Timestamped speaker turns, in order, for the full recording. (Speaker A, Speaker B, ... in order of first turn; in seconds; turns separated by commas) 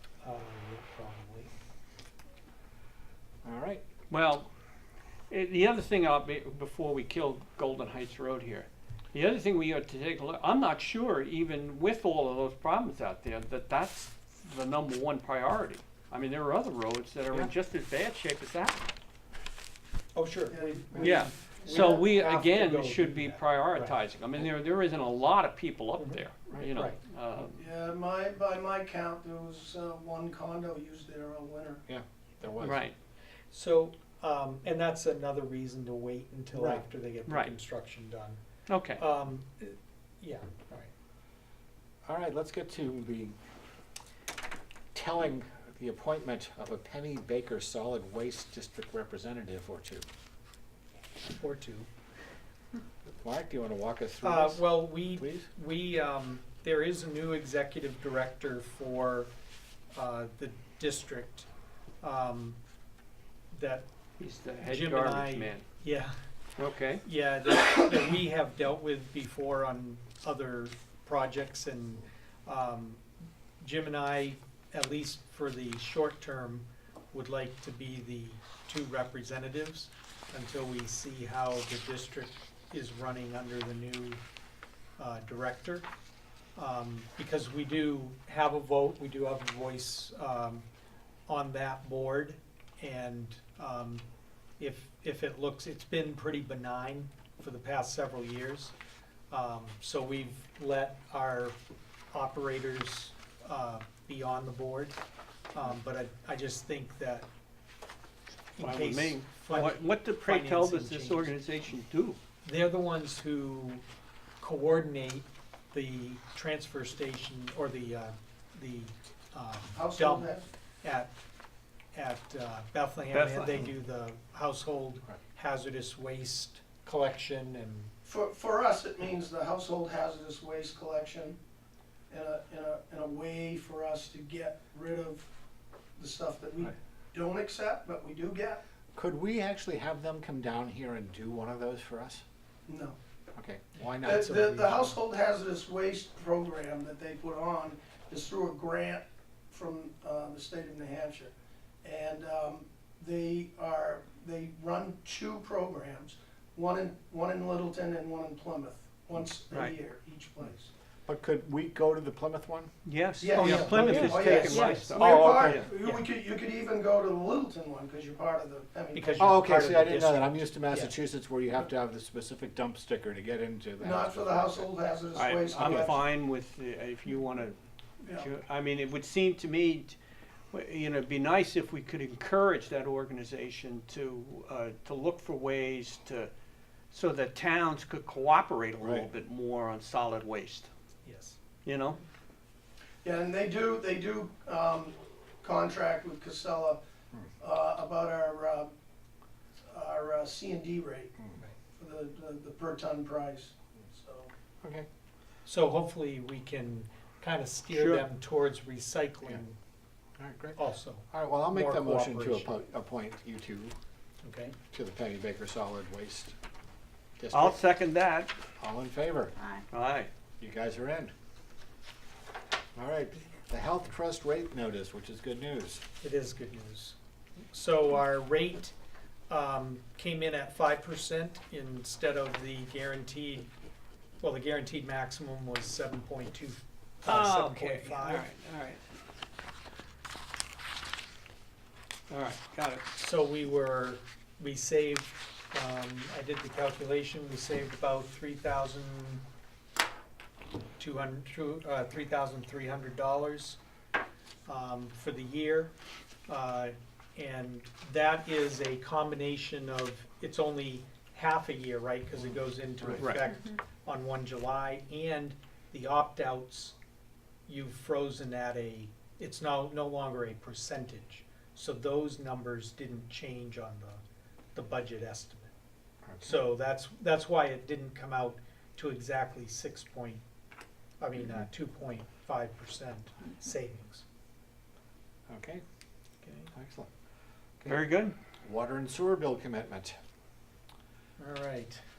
Speaker A: 0.2-1.5, Speaker B: 3.4-3.8, Speaker C: 4.1-4.5, Speaker C: 5.3-18.9, Speaker A: 20.1-23.9, Speaker D: 20.5-22.1, Speaker C: 21.0-27.6, Speaker A: 26.0-27.0, Speaker D: 27.6-31.8, Speaker B: 31.9-32.8, Speaker C: 32.6-32.9, Speaker A: 33.5-38.4, Speaker B: 36.5-36.8, Speaker C: 37.3-37.5, Speaker C: 38.7-39.0, Speaker A: 39.0-40.9, Speaker B: 42.0-43.4, Speaker B: 44.9-50.0, Speaker A: 51.4-51.9, Speaker B: 53.1-55.5, Speaker A: 54.2-59.3, Speaker A: 59.9-61.5, Speaker A: 62.0-62.6, Speaker A: 63.5-63.9, Speaker C: 64.2-65.7, Speaker A: 64.6-66.1, Speaker C: 66.6-67.0, Speaker A: 67.0-73.0, Speaker A: 73.6-84.2, Speaker A: 85.0-85.9, Speaker A: 86.5-90.7, Speaker A: 91.3-94.0, Speaker A: 94.6-98.7, Speaker A: 99.3-101.6, Speaker A: 102.1-105.0, Speaker A: 105.5-107.3, Speaker A: 108.5-111.4, Speaker C: 108.6-112.2, Speaker A: 112.4-113.8, Speaker A: 114.4-121.1, Speaker D: 119.7-120.5, Speaker A: 121.9-127.9, Speaker C: 123.1-123.7, Speaker D: 128.0-131.4, Speaker D: 132.1-135.3, Speaker D: 136.0-138.6, Speaker B: 138.9-142.2, Speaker D: 142.7-143.0, Speaker B: 143.3-144.3, Speaker D: 144.0-160.7, Speaker A: 144.1-144.9, Speaker B: 161.1-162.7, Speaker C: 162.8-165.7, Speaker D: 163.2-169.5, Speaker A: 163.3-166.0, Speaker A: 168.9-170.9, Speaker B: 169.2-174.7, Speaker D: 173.8-176.0, Speaker C: 175.1-177.6, Speaker B: 175.6-175.9, Speaker D: 178.0-178.3, Speaker C: 178.2-180.0, Speaker C: 180.5-186.3, Speaker C: 186.9-190.7, Speaker B: 188.8-189.1, Speaker A: 191.0-191.4, Speaker C: 191.6-192.0, Speaker D: 193.0-196.8, Speaker D: 197.4-198.7, Speaker D: 199.7-201.1, Speaker D: 201.8-204.3, Speaker B: 204.6-204.9, Speaker A: 205.4-209.6, Speaker C: 207.7-208.0, Speaker B: 210.2-213.8, Speaker A: 210.6-212.5, Speaker A: 214.2-214.6, Speaker B: 214.7-216.3, Speaker B: 217.2-217.6, Speaker C: 217.3-218.3, Speaker B: 218.6-219.3, Speaker C: 219.7-220.1, Speaker B: 220.4-221.1, Speaker B: 222.7-225.8, Speaker A: 226.0-226.9, Speaker A: 227.5-228.7, Speaker A: 229.3-233.5, Speaker A: 234.2-238.3, Speaker C: 237.0-238.8, Speaker C: 242.1-242.8, Speaker A: 242.9-249.2, Speaker A: 250.8-253.6, Speaker A: 254.4-255.7, Speaker A: 256.3-266.7, Speaker C: 262.8-263.2, Speaker A: 267.5-274.0, Speaker A: 274.5-275.5, Speaker B: 276.0-276.3, Speaker A: 276.2-280.2, Speaker A: 281.0-284.0, Speaker B: 285.3-285.6, Speaker A: 286.2-286.5, Speaker B: 286.5-286.9, Speaker B: 287.6-287.9, Speaker C: 287.6-288.1, Speaker B: 288.4-290.0, Speaker A: 291.2-291.8